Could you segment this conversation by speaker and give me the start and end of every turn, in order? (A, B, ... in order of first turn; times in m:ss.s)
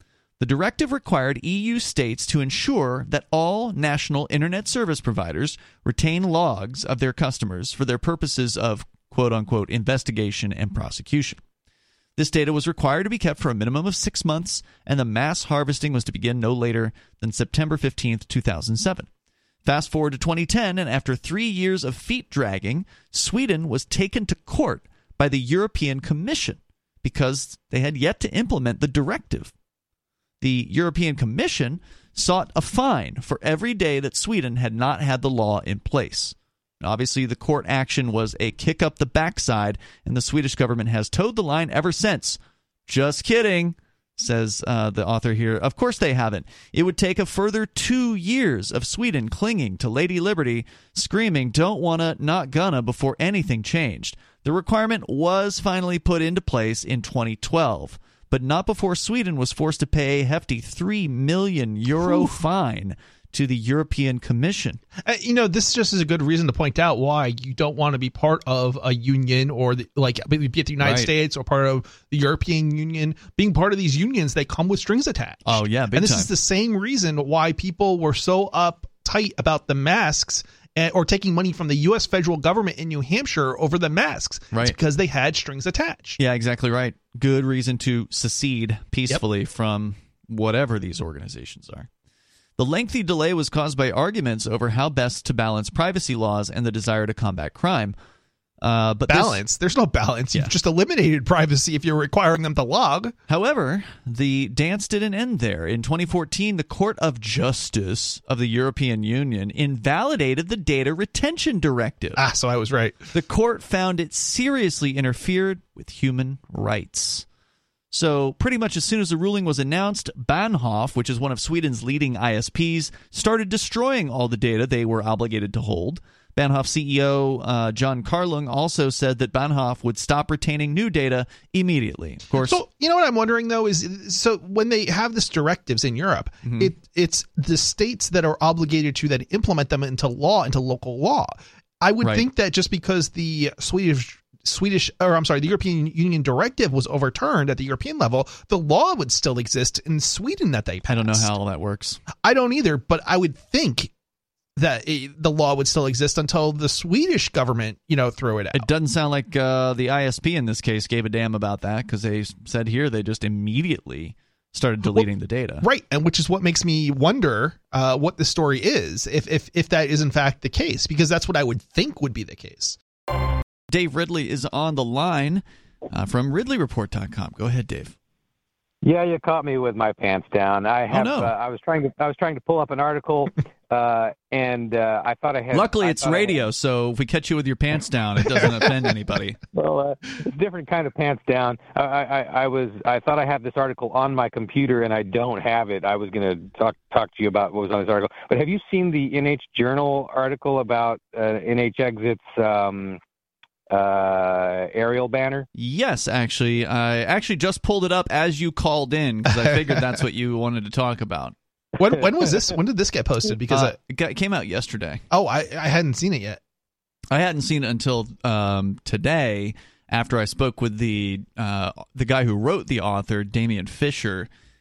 0:00.4-0:11.4 A
0:12.2-0:19.1 A
0:19.6-0:29.5 A
0:30.4-1:04.8 A
1:02.0-1:02.3 B
1:05.0-1:26.2 B
1:10.8-1:11.1 A
1:15.4-1:16.3 A
1:26.2-1:31.9 A
1:32.6-1:38.0 A
1:38.6-1:39.4 A
1:39.1-1:43.1 B
1:43.3-1:52.2 A
1:52.2-1:53.1 B
1:53.1-1:57.2 A
1:57.9-2:12.6 A
2:12.4-2:31.3 B
2:16.4-2:16.7 A
2:30.9-2:32.0 A
2:32.2-2:33.9 B
2:34.6-2:38.6 B
2:38.5-2:45.6 A
2:45.6-2:52.8 B
2:53.7-2:58.0 A
2:58.8-3:06.4 C
3:00.9-3:01.3 A
3:05.5-3:09.4 A
3:09.5-3:23.0 C
3:23.7-3:25.5 C
3:25.6-3:31.4 A
3:29.4-3:29.8 B
3:31.8-3:33.8 B
3:33.5-3:35.0 A
3:35.1-3:36.4 B
3:37.1-3:44.3 A